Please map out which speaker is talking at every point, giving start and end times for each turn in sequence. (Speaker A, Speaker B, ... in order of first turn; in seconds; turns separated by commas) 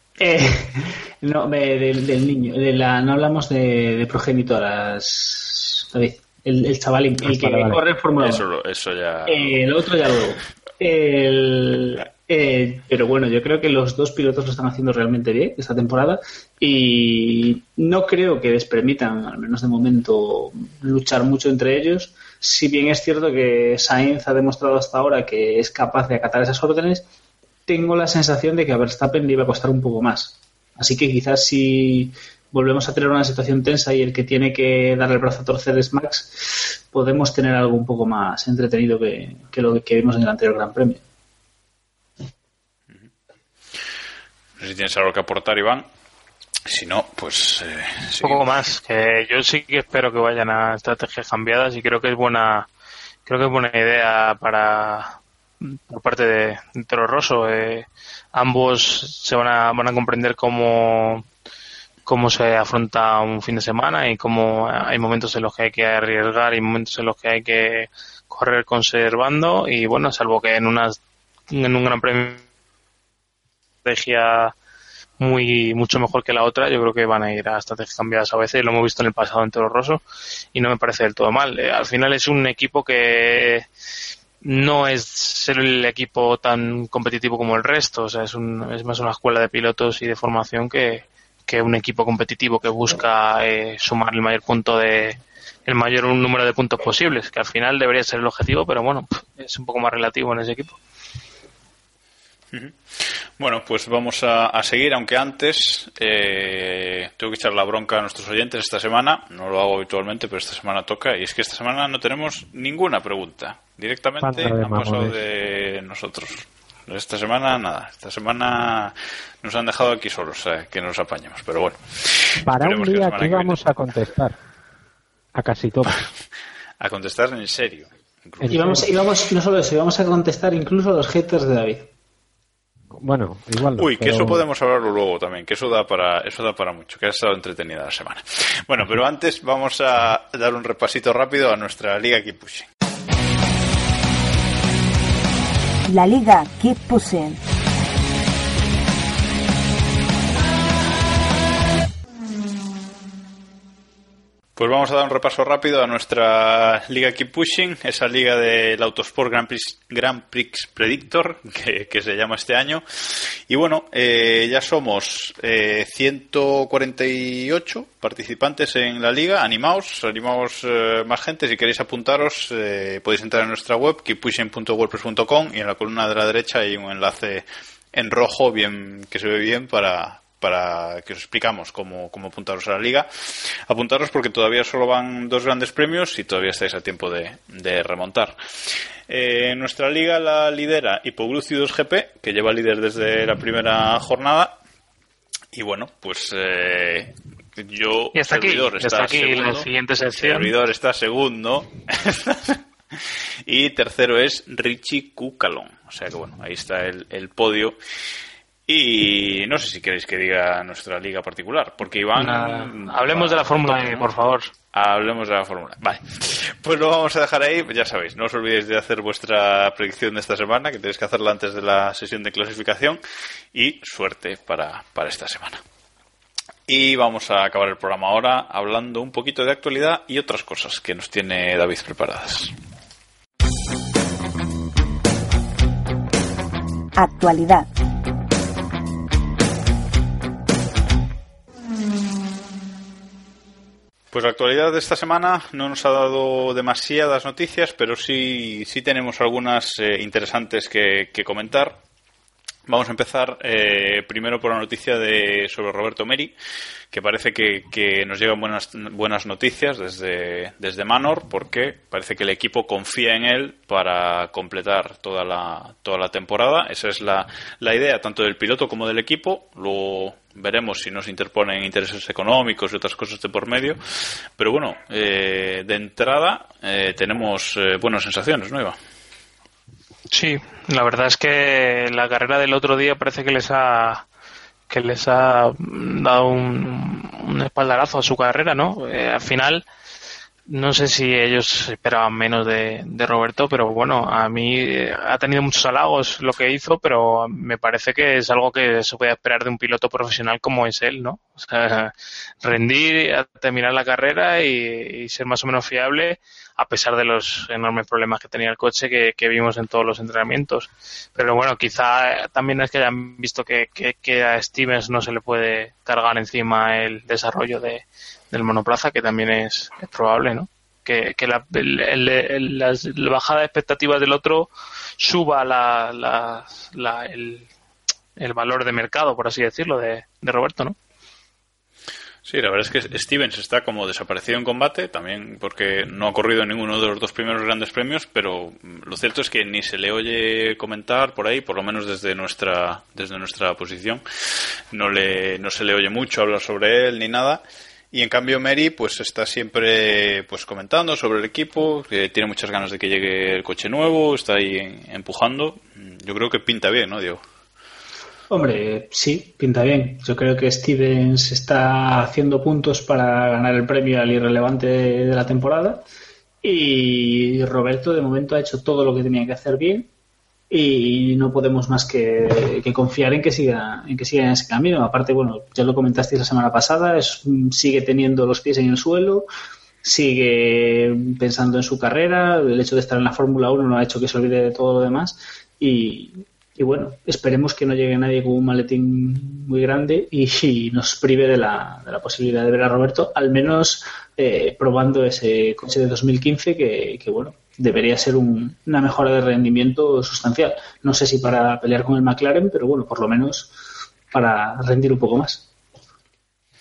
Speaker A: 0.2-8.4, Speaker B: 7.2-7.8, Speaker C: 8.2-9.7, Speaker A: 9.3-27.1, Speaker A: 27.7-41.0, Speaker C: 44.6-45.9, Speaker C: 46.7-48.5, Speaker D: 48.2-52.7, Speaker D: 53.3-61.2, Speaker D: 62.1-71.0, Speaker D: 71.5-72.4, Speaker D: 73.8-74.5, Speaker D: 75.2-80.0, Speaker D: 80.5-83.7, Speaker D: 84.4-100.8, Speaker C: 102.5-123.6, Speaker B: 114.2-115.2, Speaker B: 122.4-124.4, Speaker B: 125.3-126.0, Speaker C: 126.8-128.9, Speaker B: 128.4-128.9, Speaker A: 128.5-131.9, Speaker B: 132.9-134.4, Speaker C: 133.8-142.7, Speaker E: 145.9-147.4, Speaker C: 154.6-188.4, Speaker C: 189.1-194.6, Speaker C: 195.5-207.8, Speaker D: 198.1-200.5, Speaker C: 208.7-214.1, Speaker D: 212.2-214.5, Speaker C: 214.7-223.0, Speaker C: 223.5-225.6, Speaker C: 226.7-232.5, Speaker E: 237.0-237.7, Speaker C: 244.1-251.8, Speaker C: 252.7-256.4, Speaker C: 256.9-278.8, Speaker D: 280.1-284.1, Speaker D: 284.7-289.6, Speaker D: 290.5-301.9, Speaker D: 302.4-324.5, Speaker D: 325.0-327.5, Speaker D: 328.2-330.8, Speaker C: 332.2-344.0, Speaker C: 344.7-357.2, Speaker A: 358.3-365.9, Speaker A: 366.4-369.9, Speaker A: 370.5-379.3, Speaker A: 379.8-403.5, Speaker A: 404.1-405.5